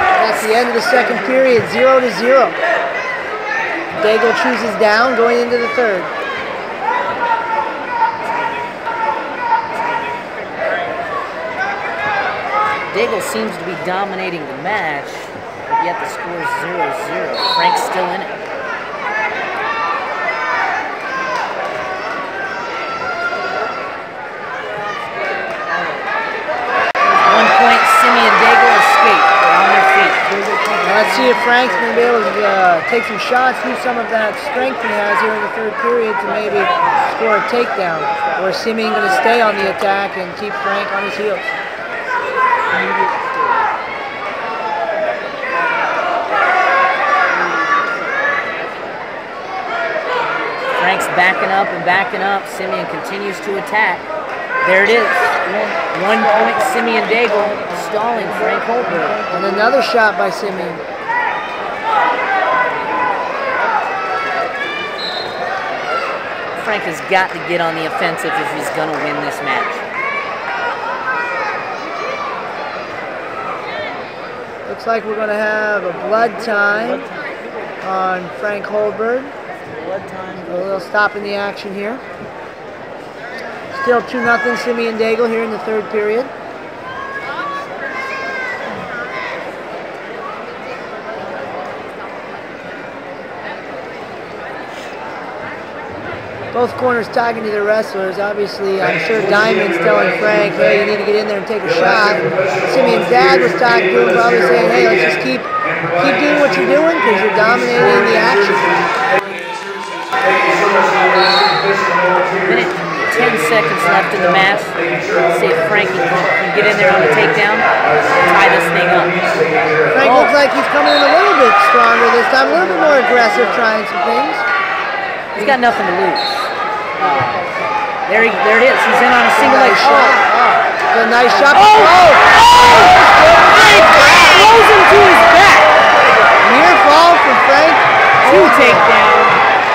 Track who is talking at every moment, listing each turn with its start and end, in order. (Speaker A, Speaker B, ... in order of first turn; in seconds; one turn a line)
Speaker A: 0.1-2.6
Speaker A: 4.0-6.1
Speaker B: 12.9-18.4
Speaker B: 27.2-30.3
Speaker A: 30.8-41.5
Speaker B: 50.7-54.1
Speaker B: 54.6-59.2
Speaker A: 59.3-60.8
Speaker B: 66.6-69.8
Speaker A: 74.7-77.1
Speaker A: 77.8-79.3
Speaker A: 80.4-82.0
Speaker A: 83.7-86.3
Speaker A: 96.5-108.8
Speaker B: 112.4-119.3
Speaker A: 119.9-124.5
Speaker B: 120.0-120.3
Speaker B: 125.4-127.5
Speaker B: 128.1-130.2
Speaker A: 129.4-132.2
Speaker B: 131.5-135.7
Speaker A: 136.4-138.9
Speaker B: 138.2-139.4